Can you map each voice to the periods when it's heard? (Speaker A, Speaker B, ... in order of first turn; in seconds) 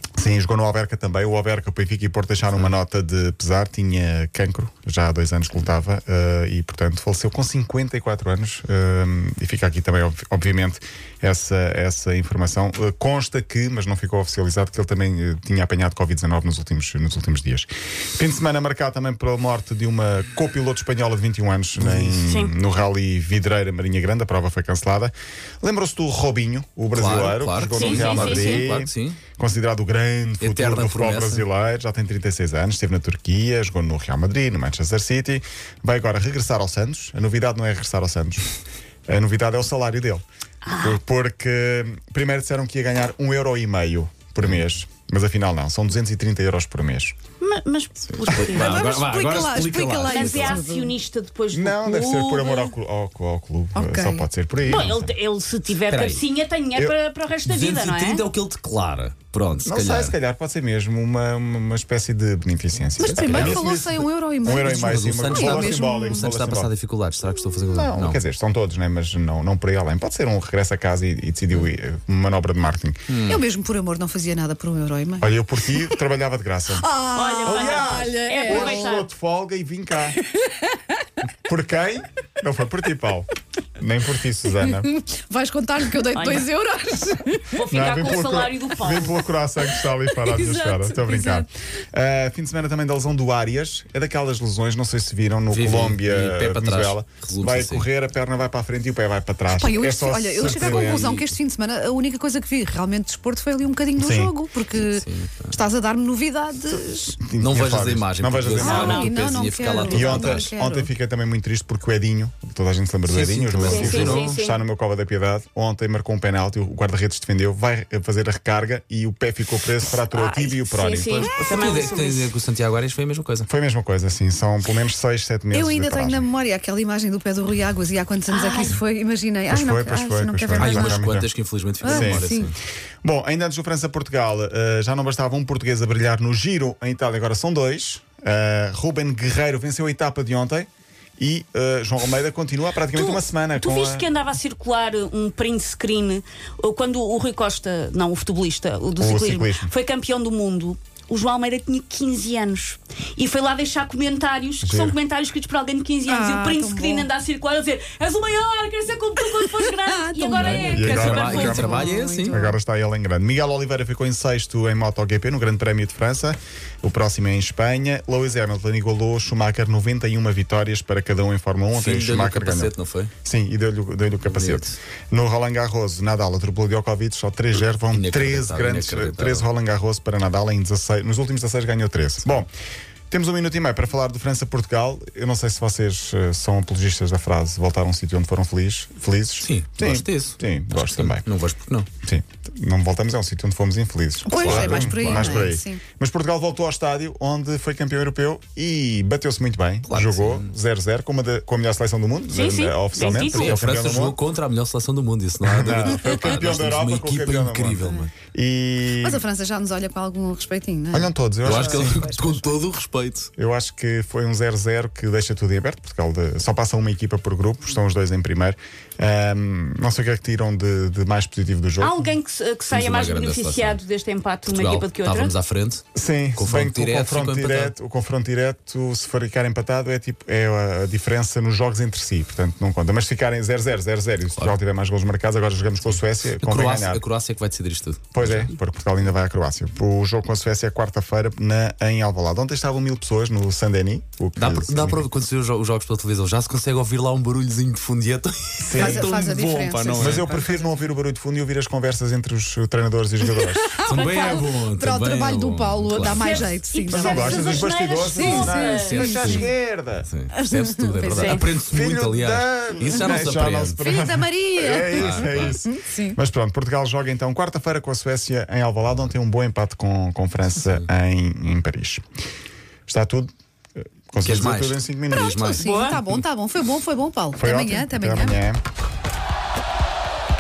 Speaker A: 0.2-38.5, 39.1-40.2, 40.8-47.2, 51.5-55.2, 59.6-66.7, 67.6-73.0, 75.2-76.9, 77.4-80.2, 81.5-84.9, 87.7-101.2, 104.0-104.3, 107.2-109.1, 109.9-121.2, 123.5-126.3, 129.5-131.3, 131.8-132.3, 133.0-144.1, 149.0-149.7, 154.6-155.0, 160.7-172.7, 173.2-182.5, 183.1-191.2, 192.0-204.2, 205.4-209.2, 210.9-212.0, 213.4-222.0, 225.9-237.0, 238.1-245.1, 248.6-249.2, 250.0-253.7, 256.9-260.1, 261.7-272.0, 272.9-273.3, 274.1-275.3, 277.4-278.6
Speaker B: 21.8-22.3, 26.9-29.2, 30.4-31.5, 48.1-50.6, 55.9-56.2, 57.5-60.1, 63.0-63.6, 64.8-68.2, 73.1-73.4, 95.5-97.9, 100.4-101.3, 104.8-105.6, 107.4-110.5, 113.1-114.4, 121.0-123.5, 130.6-132.6, 160.3-162.4, 171.7-173.1, 174.2-174.8, 177.9-179.5, 189.4-191.9, 194.3-195.5, 199.9-200.5, 203.2-208.1, 211.4-213.3, 222.7-223.8, 224.4-225.8, 226.4-227.8, 235.8-238.5, 244.4-250.4, 253.8-256.5, 258.2-259.5, 260.1-263.8, 264.9-265.6, 270.6-270.9, 274.2-276.2
Speaker C: 22.3-22.6, 27.7-28.7, 40.6-41.0, 47.4-48.9, 50.0-52.8, 54.6-58.2, 77.2-79.1, 86.1-86.5, 87.5-89.2, 108.6-109.1, 113.7-114.6, 120.7-122.3, 128.3-128.8, 142.9-161.8, 202.3-203.6, 221.8-225.4, 253.9-254.5, 256.1-259.2, 261.1-261.4, 275.6-276.0
Speaker D: 48.5-51.0, 53.7-54.3, 63.0-66.3, 73.2-75.9, 76.7-78.9, 80.3-80.6, 84.6-87.6, 90.3-91.5, 99.5-107.2, 108.6-110.9, 120.1-120.6, 125.5-131.1, 131.8-132.5, 156.1-157.1, 159.7-162.6, 194.2-195.8, 209.0-212.5, 248.8-250.7, 253.3-259.5, 260.3-261.4, 263.8-266.2, 275.1-278.4